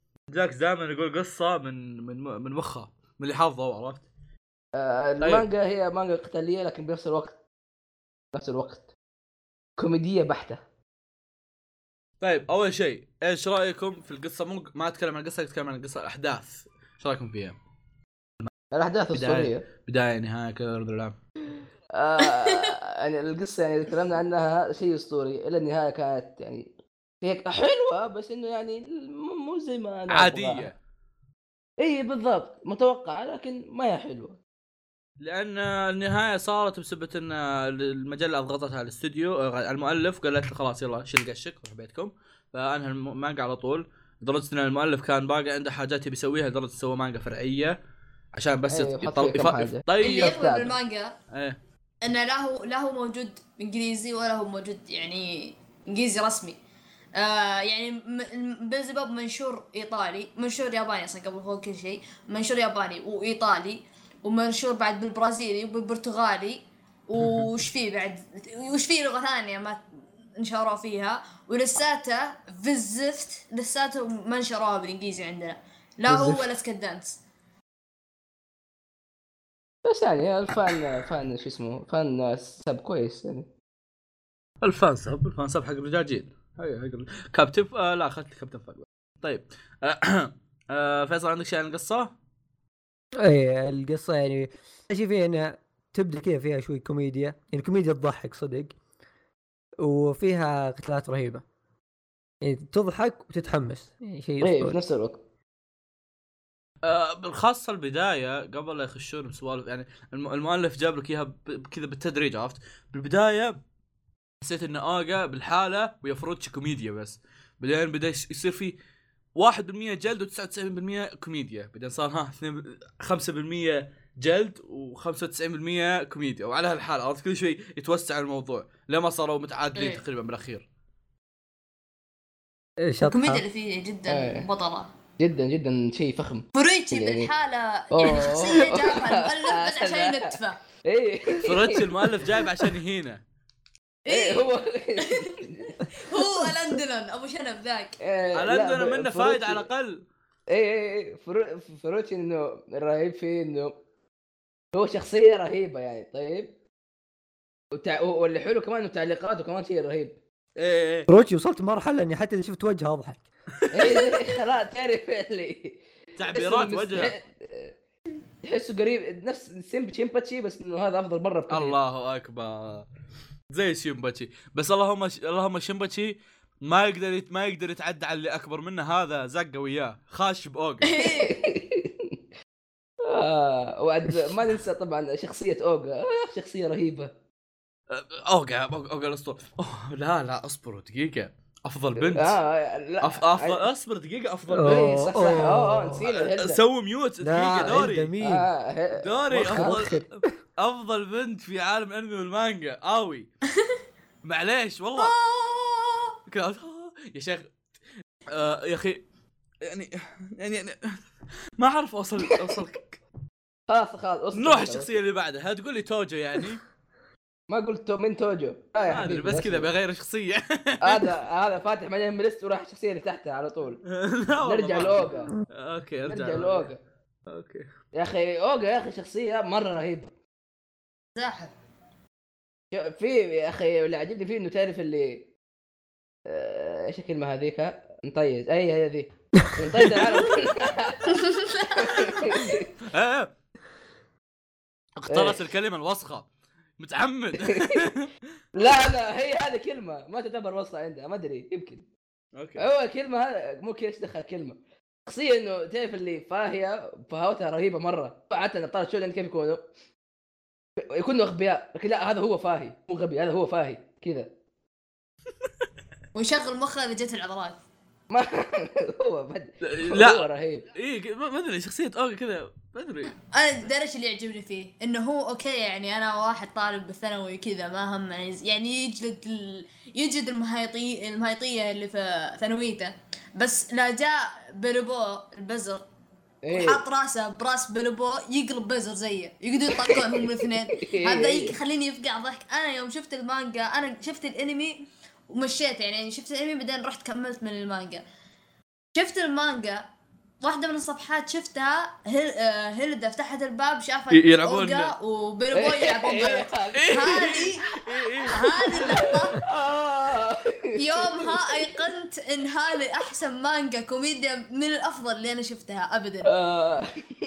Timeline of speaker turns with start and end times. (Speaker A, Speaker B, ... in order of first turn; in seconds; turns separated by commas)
Speaker A: 0.3-4.1, Speaker B: 4.7-7.4, Speaker A: 5.2-5.5, Speaker B: 8.3-8.8, Speaker B: 9.8-10.6, Speaker A: 12.2-17.6, Speaker B: 18.7-19.6, Speaker A: 19.1-21.1, Speaker B: 21.9-26.7, Speaker B: 27.2-30.7, Speaker A: 30.1-30.8, Speaker B: 31.8-34.4, Speaker A: 35.2-47.8, Speaker A: 48.3-50.4, Speaker B: 48.7-50.7, Speaker C: 50.0-51.1, Speaker A: 51.3-51.6, Speaker C: 52.0-56.6, Speaker C: 57.2-69.8, Speaker C: 70.4-77.2, Speaker B: 76.1-76.5, Speaker B: 79.8-83.5, Speaker A: 84.6-92.1, Speaker D: 93.2-98.7, Speaker D: 99.8-101.4, Speaker D: 102.4-104.8, Speaker B: 104.4-105.2, Speaker A: 106.8-113.6, Speaker A: 114.4-118.8, Speaker A: 119.3-130.7, Speaker D: 132.8-133.4, Speaker C: 133.1-134.9, Speaker B: 134.1-134.4, Speaker B: 135.2-137.3, Speaker C: 136.5-140.6, Speaker B: 137.9-140.2, Speaker B: 140.8-141.7, Speaker A: 141.4-143.2, Speaker C: 144.1-144.5, Speaker B: 144.1-145.7, Speaker C: 145.9-147.9, Speaker B: 148.0-149.7, Speaker A: 148.3-150.0, Speaker B: 150.5-153.7, Speaker B: 154.7-156.5, Speaker B: 157.7-160.1, Speaker A: 160.6-161.1, Speaker D: 161.1-163.2, Speaker B: 163.7-165.8, Speaker A: 166.2-167.2, Speaker B: 166.3-167.7, Speaker B: 168.4-171.8, Speaker A: 171.5-172.9, Speaker A: 173.5-180.9, Speaker C: 180.9-181.3, Speaker B: 181.0-181.9, Speaker B: 183.1-187.1, Speaker A: 187.9-192.4, Speaker B: 192.0-193.7, Speaker A: 193.0-195.0, Speaker D: 194.5-196.0, Speaker B: 194.6-196.6, Speaker A: 196.1-198.2, Speaker D: 197.2-198.5, Speaker B: 198.2-199.9, Speaker A: 199.0-203.3, Speaker D: 199.3-200.1, Speaker A: 204.2-205.1, Speaker C: 205.0-206.1, Speaker A: 206.3-207.5, Speaker A: 208.3-209.0, Speaker A: 209.7-210.8, Speaker A: 211.6-213.0, Speaker B: 213.7-214.9, Speaker A: 214.3-216.6, Speaker B: 217.5-219.7, Speaker A: 218.9-221.0, Speaker B: 220.8-223.8, Speaker A: 223.9-226.7, Speaker B: 224.4-225.3, Speaker B: 226.1-226.8, Speaker A: 227.3-227.7, Speaker B: 227.9-230.1, Speaker C: 231.2-231.5, Speaker B: 232.7-235.2, Speaker B: 236.3-241.0, Speaker A: 239.9-240.3, Speaker C: 241.1-242.5, Speaker B: 241.8-242.7, Speaker A: 242.9-243.3, Speaker A: 244.9-246.3, Speaker B: 245.1-245.5, Speaker A: 246.8-248.1, Speaker B: 248.5-251.8, Speaker A: 252.3-252.6, Speaker B: 252.6-259.6, Speaker B: 260.9-264.3, Speaker C: 266.1-267.6, Speaker B: 268.1-270.6, Speaker A: 269.6-273.1, Speaker C: 273.3-285.8, Speaker B: 286.4-286.8, Speaker C: 286.5-298.0, Speaker B: 289.8-291.6, Speaker C: 298.9-299.8, Speaker C: 300.4-307.7, Speaker A: 304.1-304.9, Speaker B: 305.5-307.3, Speaker A: 306.7-308.9, Speaker C: 308.3-309.4, Speaker B: 308.7-310.4, Speaker C: 310.8-316.3, Speaker B: 316.3-316.9